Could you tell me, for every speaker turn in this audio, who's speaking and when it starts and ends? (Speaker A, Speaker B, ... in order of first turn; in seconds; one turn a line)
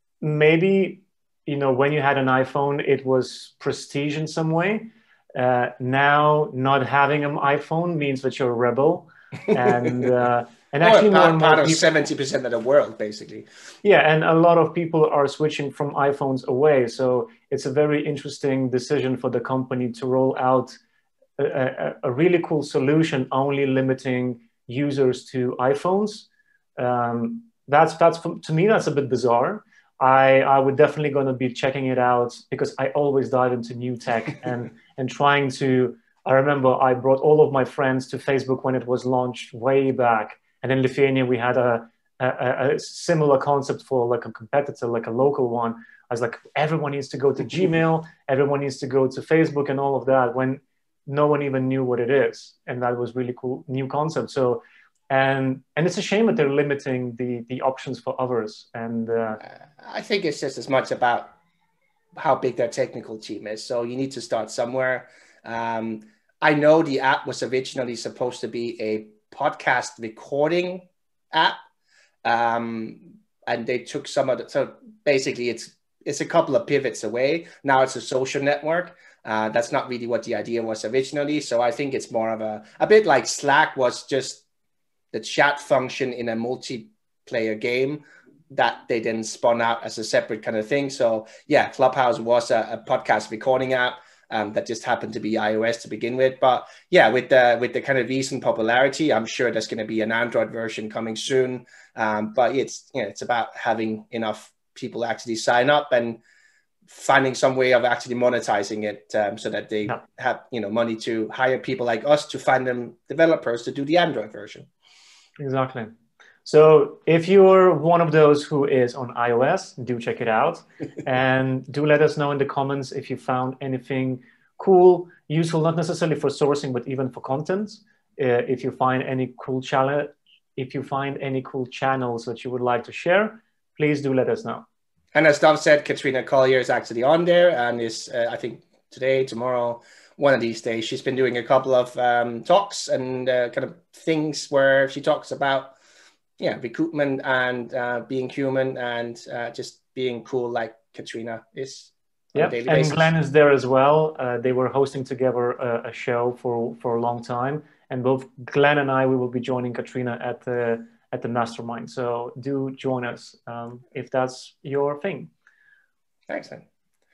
Speaker A: 0.2-11.9
Speaker B: 10.8-13.5
Speaker A: 13.8-20.8
Speaker A: 21.4-59.4
Speaker B: 59.8-61.3
Speaker B: 62.1-71.6
Speaker B: 72.2-84.4
Speaker B: 85.1-106.2
Speaker B: 106.9-114.7
Speaker A: 115.4-115.9
Speaker A: 116.5-134.7
Speaker B: 135.1-145.7
Speaker B: 146.4-153.1
Speaker A: 152.3-165.3
Speaker B: 166.3-166.6